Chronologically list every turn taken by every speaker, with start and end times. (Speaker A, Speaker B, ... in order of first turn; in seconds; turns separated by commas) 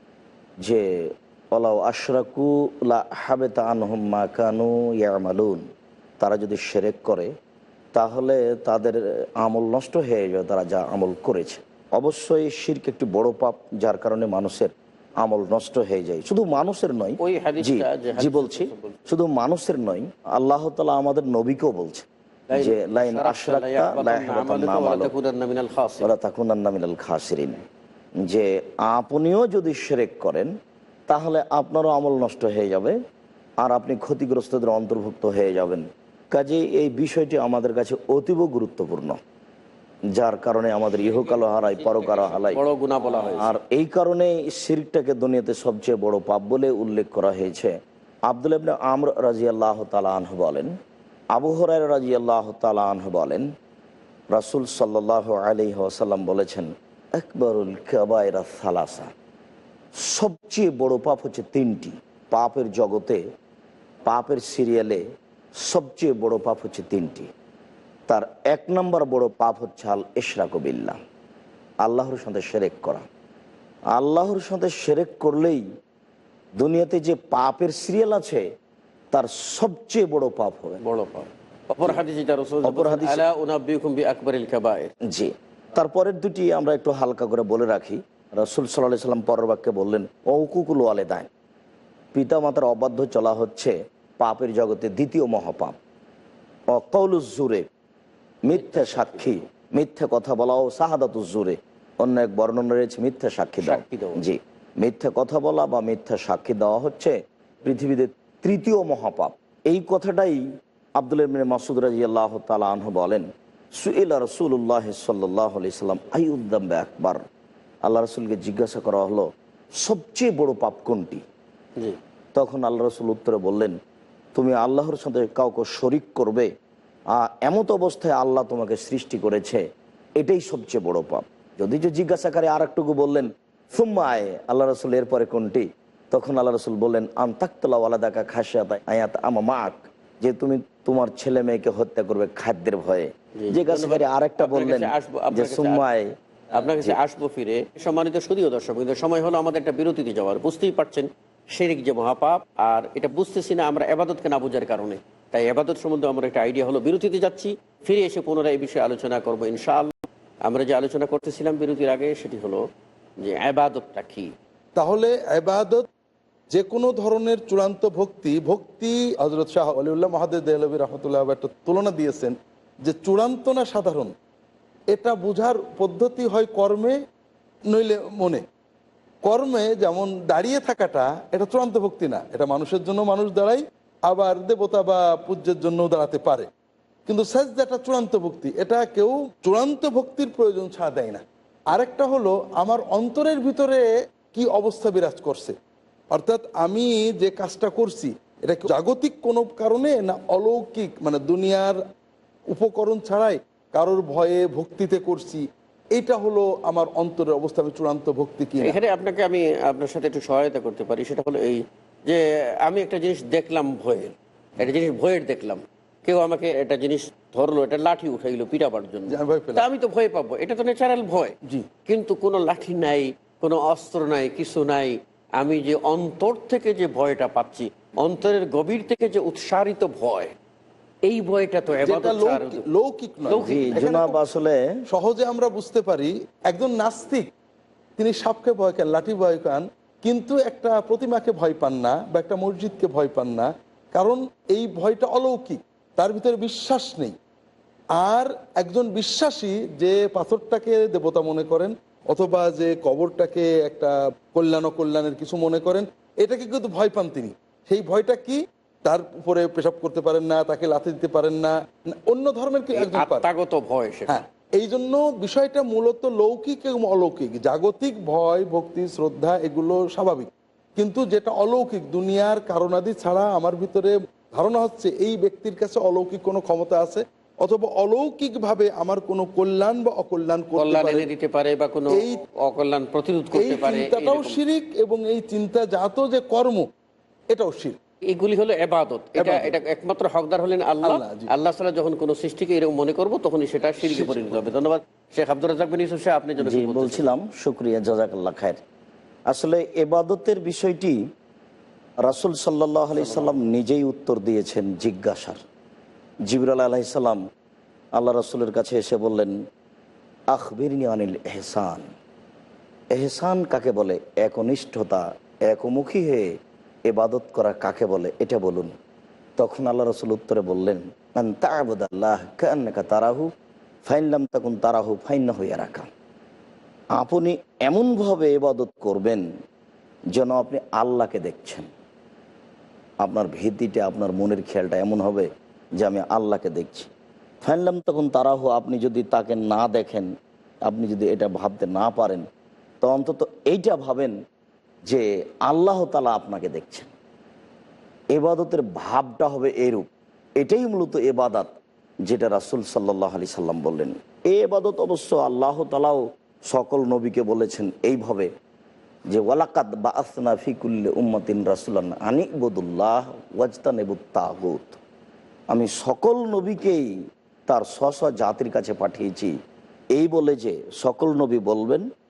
Speaker A: 0.6-5.6, Speaker A: 6.2-7.3, Speaker A: 7.9-25.1, Speaker B: 17.2-19.0, Speaker B: 22.5-26.1, Speaker A: 26.0-27.6, Speaker A: 28.2-30.5, Speaker A: 31.1-33.0, Speaker A: 33.6-39.2, Speaker A: 40.1-42.6, Speaker B: 40.9-43.6, Speaker A: 43.1-47.8, Speaker A: 48.3-50.7, Speaker A: 51.3-53.5, Speaker A: 54.3-59.1, Speaker A: 60.0-63.2, Speaker A: 64.0-65.0, Speaker A: 65.6-67.3, Speaker A: 68.1-71.0, Speaker A: 71.8-73.0, Speaker A: 73.9-75.6, Speaker A: 76.6-78.5, Speaker A: 79.1-80.8, Speaker B: 80.8-84.9, Speaker A: 82.6-83.2, Speaker A: 85.1-91.3, Speaker A: 92.1-95.8, Speaker A: 96.7-97.6, Speaker A: 98.5-110.5, Speaker B: 98.5-99.3, Speaker B: 103.6-104.2, Speaker A: 111.0-117.2, Speaker A: 117.8-121.2, Speaker A: 122.3-123.8, Speaker A: 124.3-126.5, Speaker A: 127.1-129.6, Speaker A: 130.2-146.1, Speaker B: 143.4-145.8, Speaker B: 146.5-162.6, Speaker B: 163.2-164.3, Speaker C: 164.8-165.9, Speaker C: 166.5-174.1, Speaker C: 174.9-177.0, Speaker C: 177.7-178.4, Speaker C: 179.2-186.5, Speaker C: 187.1-195.5, Speaker C: 196.1-201.8, Speaker C: 202.5-208.8, Speaker B: 208.6-230.3, Speaker C: 219.1-219.7, Speaker B: 231.1-232.6, Speaker C: 231.8-234.0, Speaker B: 233.3-234.2, Speaker A: 233.4-234.7, Speaker C: 234.9-237.3, Speaker C: 238.0-247.1, Speaker C: 248.0-261.6, Speaker C: 262.1-263.3, Speaker B: 262.7-264.2, Speaker C: 264.1-281.1, Speaker B: 280.6-284.4, Speaker C: 281.9-282.2, Speaker C: 283.3-286.7, Speaker C: 287.3-287.8, Speaker B: 288.1-297.1, Speaker C: 289.2-289.6, Speaker C: 290.8-291.3, Speaker C: 293.8-294.5, Speaker A: 296.4-298.6, Speaker A: 299.3-301.0, Speaker A: 302.0-305.4, Speaker B: 302.9-303.4, Speaker A: 306.3-307.2, Speaker A: 307.9-309.4, Speaker A: 310.3-311.9, Speaker A: 312.9-316.3, Speaker A: 316.9-318.7, Speaker A: 319.4-323.3, Speaker A: 323.8-325.9, Speaker A: 326.9-329.2, Speaker A: 330.1-331.7, Speaker A: 333.0-335.3, Speaker A: 335.8-336.9, Speaker A: 337.4-340.1, Speaker A: 340.7-342.2, Speaker A: 342.8-344.2, Speaker A: 344.9-346.9, Speaker A: 348.1-349.9, Speaker A: 350.4-351.5, Speaker A: 352.1-358.3, Speaker A: 359.1-364.8, Speaker A: 365.5-366.9, Speaker A: 367.5-369.3, Speaker A: 369.9-371.9